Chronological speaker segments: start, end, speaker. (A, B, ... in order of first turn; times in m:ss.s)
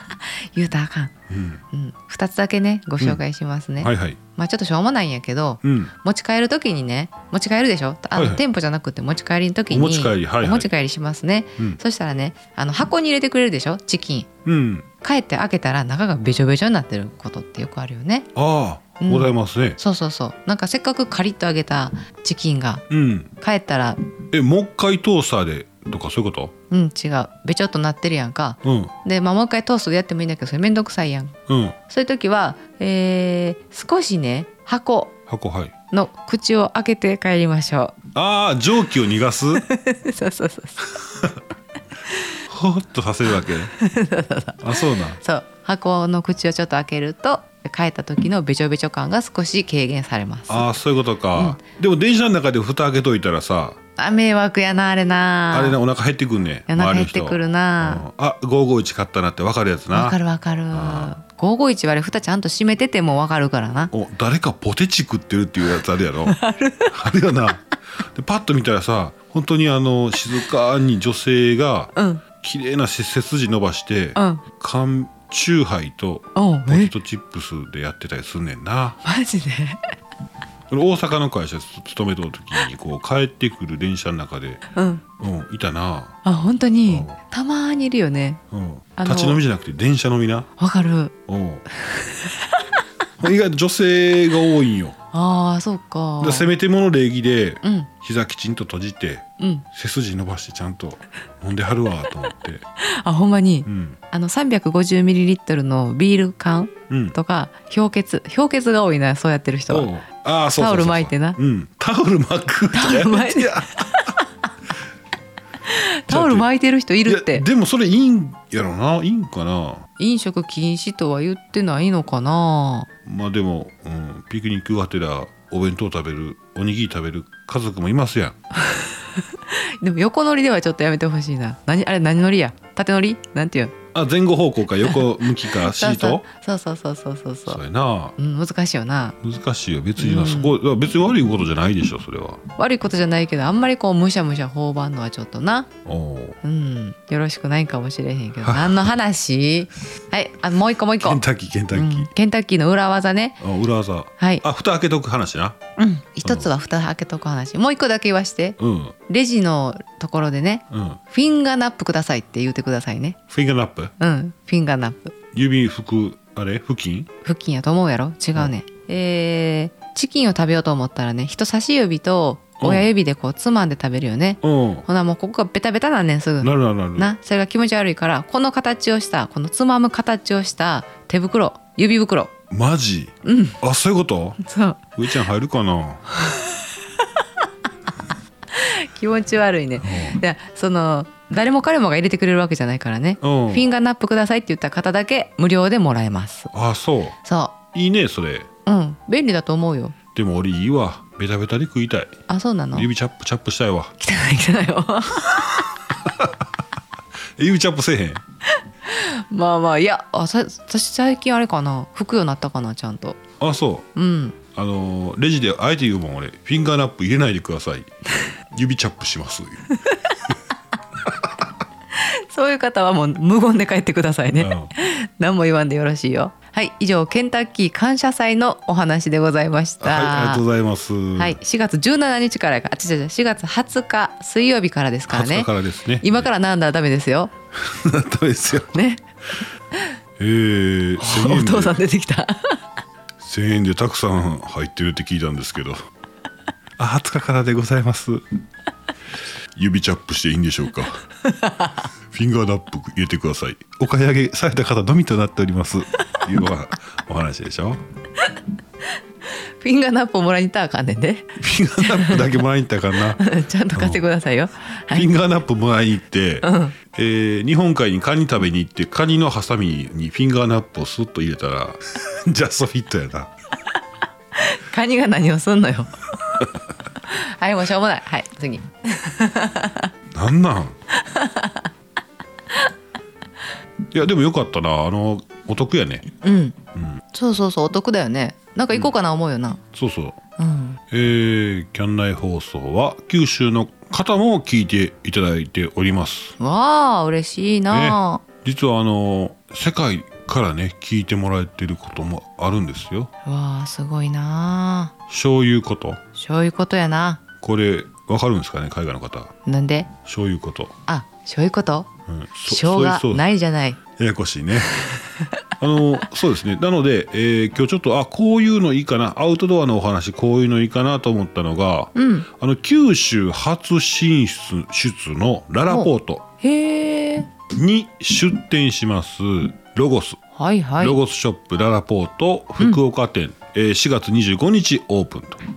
0:00.5-0:01.1 A
0:01.3-0:01.6 B
0:01.7-0:14.3 A
0:03.8-0:04.2 B
0:05.6-0:05.9 B
0:08.2-0:08.4 B
0:09.7-0:10.7 B
0:14.5-0:14.9 B
0:15.0-0:18.3 A
0:18.4-0:19.8 B
0:19.0-0:22.8 A
0:22.9-0:23.3 B
0:23.4-0:24.0 A
0:24.3-0:26.5 B
0:26.7-0:31.4 A
0:28.6-0:28.9 B
0:31.5-0:31.8 B
0:31.9-0:35.2 A
0:35.3-0:35.7 B
0:35.9-0:38.0 A
0:38.1-0:39.6 B
0:39.6-0:41.0 A
0:41.0-0:41.4 B
0:42.5-0:43.7 B
0:43.8-0:50.7 A
0:44.6-0:45.2 B
0:50.5-0:53.8 B
0:54.0-0:55.8 A
0:55.5-1:00.2 B
0:56.7-0:58.0 A
0:59.9-1:03.9 A
1:00.7-1:01.1 B
1:03.9-1:19.0 B
1:06.3-1:06.9 A
1:12.0-1:12.2 A
1:14.2-1:14.4 A
1:16.4-1:16.9 A
1:19.0-1:19.8 A
1:20.7-1:24.6 B
1:24.7-1:25.0 A
1:25.2-1:26.2 B
1:26.2-1:28.4 A
1:26.9-1:27.2 B
1:28.5-1:30.5 B
1:29.0-1:29.4 A
1:30.6-1:31.2 A
1:31.3-1:31.6 B
1:31.8-1:32.7 A
1:33.2-1:35.0 B
1:35.1-1:36.5 A
1:36.2-1:42.6 B
1:37.6-1:37.9 A
1:39.4-1:39.6 A
1:42.8-1:49.9 A
1:43.7-1:44.0 B
1:46.9-1:47.2 B
1:49.7-1:54.1 B
1:50.6-1:51.4 A
1:52.7-1:54.2 A
1:55.6-1:57.5 A
1:56.1-1:56.5 B
1:57.1-1:59.9 B
2:00.0-2:02.9 A
2:03.0-2:08.4 B
2:08.6-2:13.8 A
2:13.9-2:16.2 B
2:14.8-2:17.6 A
2:17.5-2:18.2 B
2:18.2-2:19.2 A
2:19.2-2:22.4 B
2:20.0-2:20.6 A
2:22.6-2:25.7 A
2:25.8-2:26.4 B
2:26.4-2:33.4 A
2:28.4-2:28.9 B
2:31.0-2:32.1 B
2:33.4-2:35.6 B
2:34.2-2:34.4 A
2:35.8-2:43.2 A
2:38.6-2:39.0 B
2:40.7-2:41.0 B
2:43.3-2:43.9 B
2:44.0-2:45.1 A
2:45.3-2:47.1 B
2:47.2-3:02.3 A
2:52.6-2:52.9 B
2:54.4-2:54.9 B
2:56.4-2:57.1 B
3:02.5-3:04.4 B
3:03.2-3:03.6 A
3:04.4-3:04.8 A
3:05.0-3:06.0 B
3:06.1-3:07.2 A
3:08.5-3:16.5 A
3:09.8-3:10.2 B
3:13.2-3:13.6 B
3:16.5-3:17.2 B
3:17.2-3:17.6 A
3:17.7-3:18.5 B
3:18.7-3:20.0 A
3:20.1-3:22.1 B
3:22.3-3:22.9 A
3:22.7-3:23.9 B
3:24.0-3:25.7 A
3:25.4-3:26.4 B
3:27.4-3:28.2 B
3:28.8-3:33.2 A
3:33.4-3:33.9 B
3:34.0-3:34.4 A
3:34.5-3:37.9 B
3:38.5-3:39.8 B
3:41.9-3:50.4 A
3:44.4-3:44.7 B
3:49.8-3:51.4 B
3:51.2-3:57.3 A
3:55.1-3:56.3 B
3:57.6-3:58.8 B
3:58.7-3:59.0 A
4:00.2-4:01.8 B
4:01.0-4:02.6 A
4:03.2-4:05.8 B
4:06.8-4:08.2 B
4:09.6-4:11.0 B
4:11.2-4:11.8 A
4:12.1-4:17.8 B
4:19.3-4:22.4 A
4:21.4-4:23.2 B
4:23.2-4:25.1 A
4:23.7-4:24.0 B
4:24.9-4:33.3 B
4:26.4-4:26.8 A
4:34.4-4:36.4 A
4:37.0-4:39.9 A
4:40.1-4:40.8 B
4:40.9-4:41.7 A
4:43.9-4:46.1 B
4:46.1-4:46.6 A
4:46.8-4:47.0 B
4:47.1-4:49.6 A
4:49.7-4:50.2 B
4:50.4-4:50.8 A
4:50.9-4:56.4 B
4:56.4-4:58.2 A
4:57.7-5:03.1 B
5:03.2-5:04.9 A
5:05.1-5:06.0 B
5:06.1-5:07.2 A
5:07.4-5:09.3 B
5:09.4-5:09.9 A
5:10.0-5:10.7 B
5:10.9-5:11.9 A
5:12.1-5:13.2 B
5:12.5-5:13.8 A
5:14.0-5:14.9 B
5:15.6-5:26.2 B
5:22.0-5:22.3 A
5:25.7-5:27.3 A
5:27.5-5:30.2 B
5:30.4-5:31.0 A
5:30.8-5:35.4 B